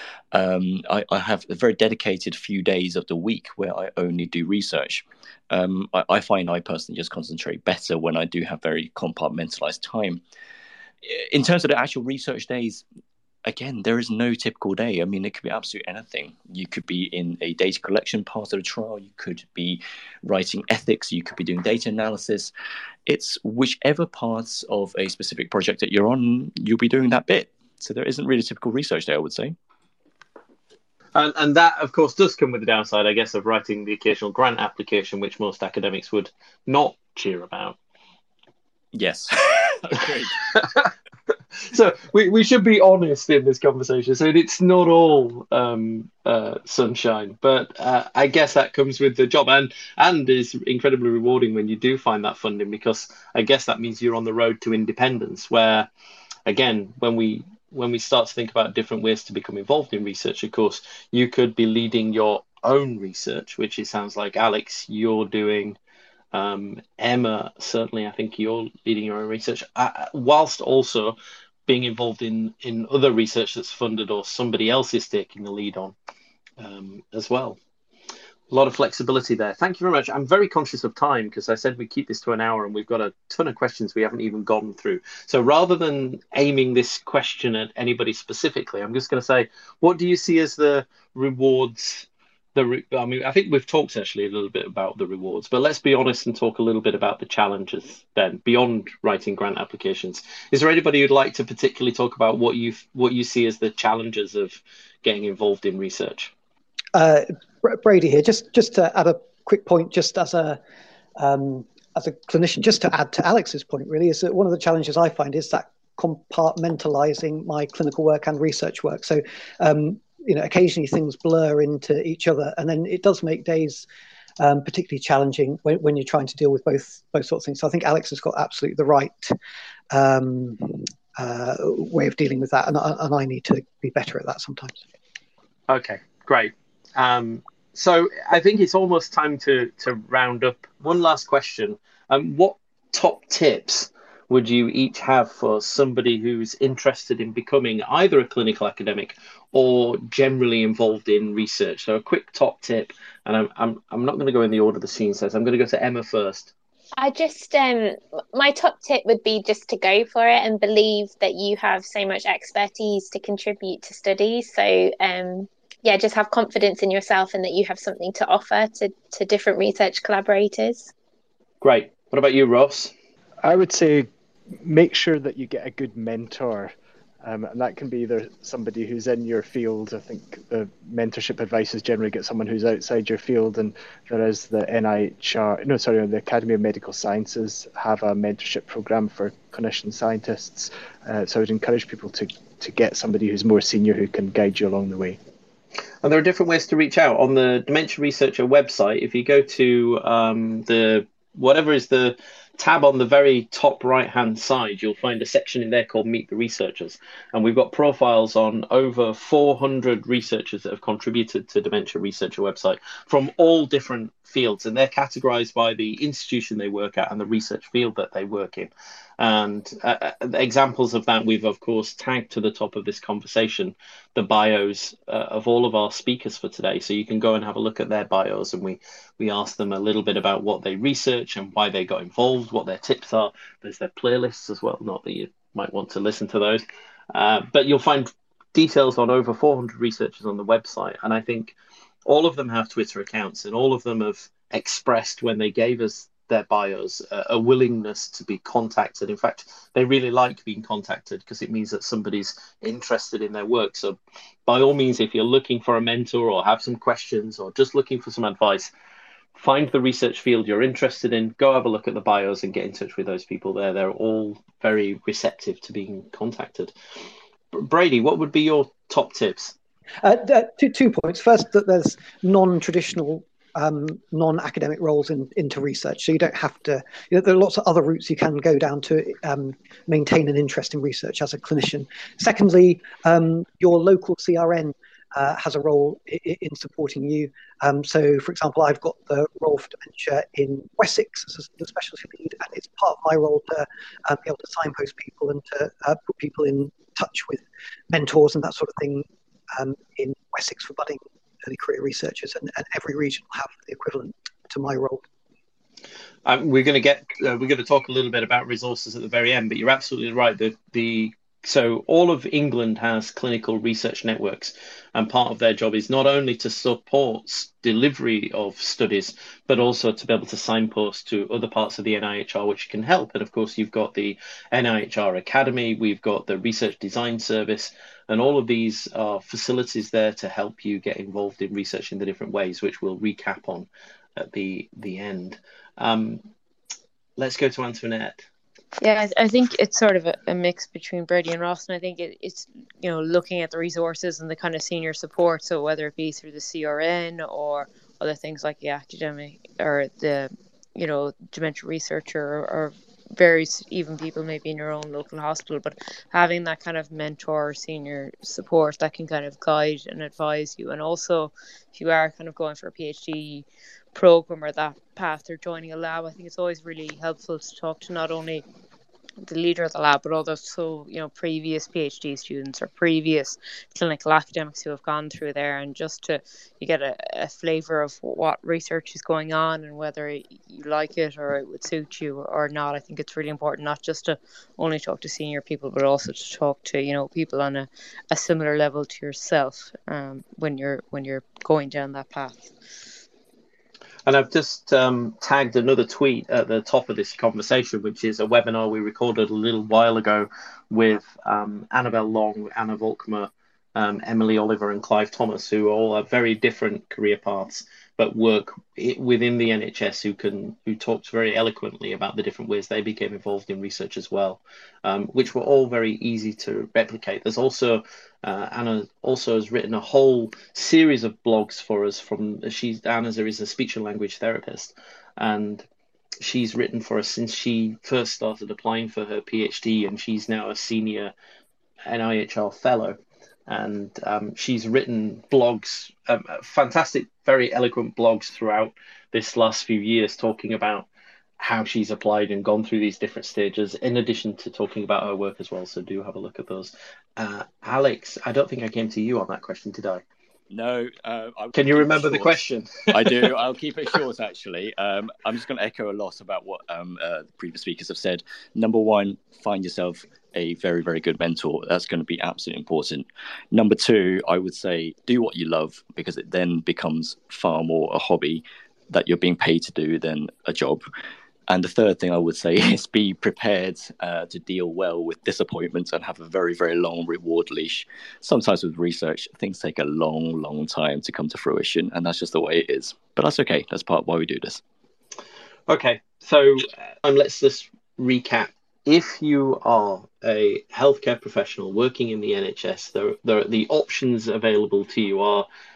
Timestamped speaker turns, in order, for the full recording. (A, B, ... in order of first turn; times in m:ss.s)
0:00.3-0:10.2 A
0:11.0-0:12.8 A
0:13.4-0:22.5 A
0:23.1-0:29.6 A
0:31.2-0:37.8 B
0:38.9-0:40.4 A
0:40.4-0:40.9 B
0:41.7-0:55.9 B
0:56.5-1:05.8 B
1:06.3-1:11.2 B
1:11.7-1:16.0 B
1:16.6-1:17.6 B
1:18.5-1:46.3 B
1:46.9-1:50.6 C
1:51.2-2:03.9 C
2:04.4-2:09.4 C
2:09.9-2:14.8 C
2:15.7-2:36.5 B
2:37.0-2:50.9 D
2:51.6-2:52.9 B
2:53.4-2:54.1 E
2:54.6-3:15.2 E
3:16.0-4:01.6 B
4:02.1-4:18.7 B
4:19.4-4:26.7 B
4:27.5-4:29.6 B
4:30.0-5:05.0 C
5:06.3-5:36.2 B
5:37.2-5:38.2 B
5:38.8-6:08.4 F
6:09.2-6:32.5 F
6:34.1-7:05.7 B
7:06.2-7:11.1 B
7:11.9-7:20.9 B
7:21.4-7:30.0 B
7:30.5-7:50.8 A
7:31.6-7:33.4 B
7:51.5-8:04.6 A
8:05.7-8:15.5 B